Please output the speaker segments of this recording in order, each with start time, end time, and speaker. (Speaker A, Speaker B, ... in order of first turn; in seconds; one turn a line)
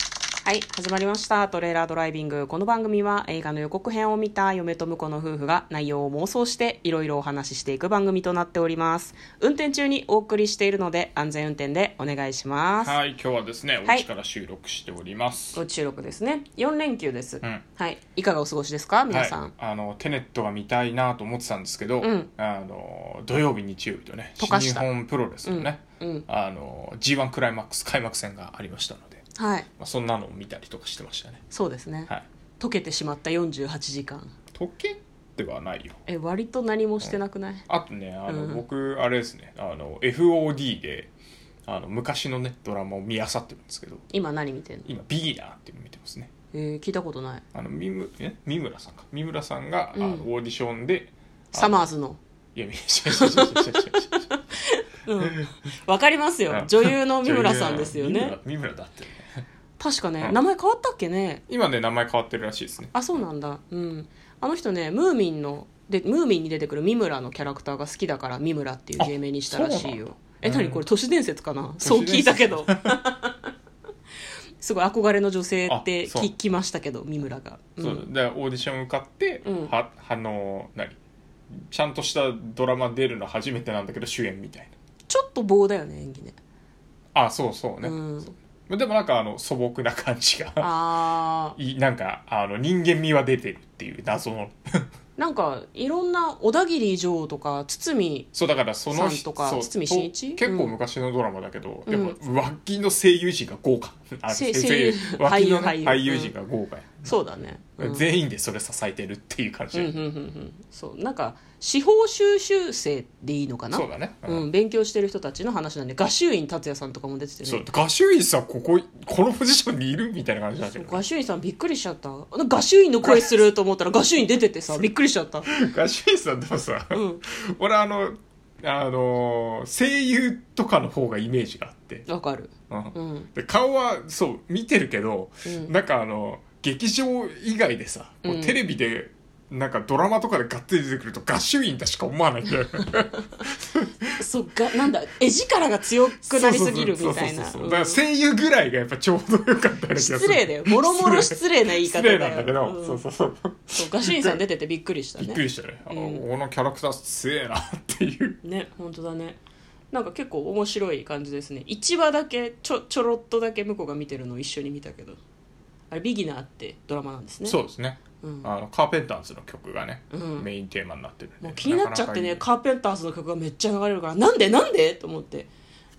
Speaker A: 0.5-13.0
Speaker B: 12.8-15.6
Speaker A: 15.6-19.5
Speaker B: 19.1-29.2
Speaker A: 22.0-22.3
Speaker A: 24.4-24.9
Speaker A: 25.4-26.3
Speaker A: 29.4-29.7
Speaker B: 29.8-31.4
Speaker A: 31.5-34.3
Speaker B: 34.5-36.0
Speaker A: 36.1-37.7
Speaker B: 37.7-41.1
Speaker A: 38.3-38.6
Speaker B: 41.7-44.0
Speaker A: 44.1-44.9
Speaker B: 44.9-46.3
Speaker A: 46.5-47.4
Speaker B: 47.5-51.9
Speaker A: 49.9-50.3
Speaker A: 51.5-52.2
Speaker B: 52.5-54.2
Speaker A: 53.1-58.4
Speaker B: 56.5-59.4
Speaker A: 59.8-61.4
Speaker B: 61.5-63.1
Speaker A: 62.9-73.5
Speaker B: 69.0-70.8
Speaker B: 71.8-73.0
Speaker A: 74.6-78.1
Speaker B: 75.7-76.3
Speaker B: 77.8-81.0
Speaker A: 79.4-79.7
Speaker B: 81.5-84.7
Speaker A: 85.1-86.4
Speaker B: 87.2-90.7
Speaker A: 87.8-88.3
Speaker A: 90.6-91.6
Speaker B: 91.6-94.9
Speaker A: 95.2-98.3
Speaker B: 98.3-107.2
Speaker A: 98.9-100.7
Speaker A: 101.9-102.2
Speaker A: 104.3-106.3
Speaker A: 107.0-108.0
Speaker B: 107.8-110.0
Speaker A: 109.7-117.7
Speaker B: 113.7-114.5
Speaker B: 117.5-121.0
Speaker A: 120.7-125.5
Speaker B: 123.0-123.4
Speaker B: 125.5-132.1
Speaker A: 126.9-127.2
Speaker A: 132.1-133.3
Speaker B: 132.7-144.2
Speaker A: 135.5-135.7
Speaker A: 138.2-138.6
Speaker A: 144.2-148.0
Speaker B: 146.3-154.4
Speaker A: 149.9-153.0
Speaker A: 153.8-156.2
Speaker B: 155.2-158.4
Speaker A: 158.4-159.4
Speaker A: 159.9-165.2
Speaker A: 165.9-167.6
Speaker B: 167.5-172.4
Speaker A: 168.2-168.5
Speaker A: 170.1-170.5
Speaker A: 171.4-175.5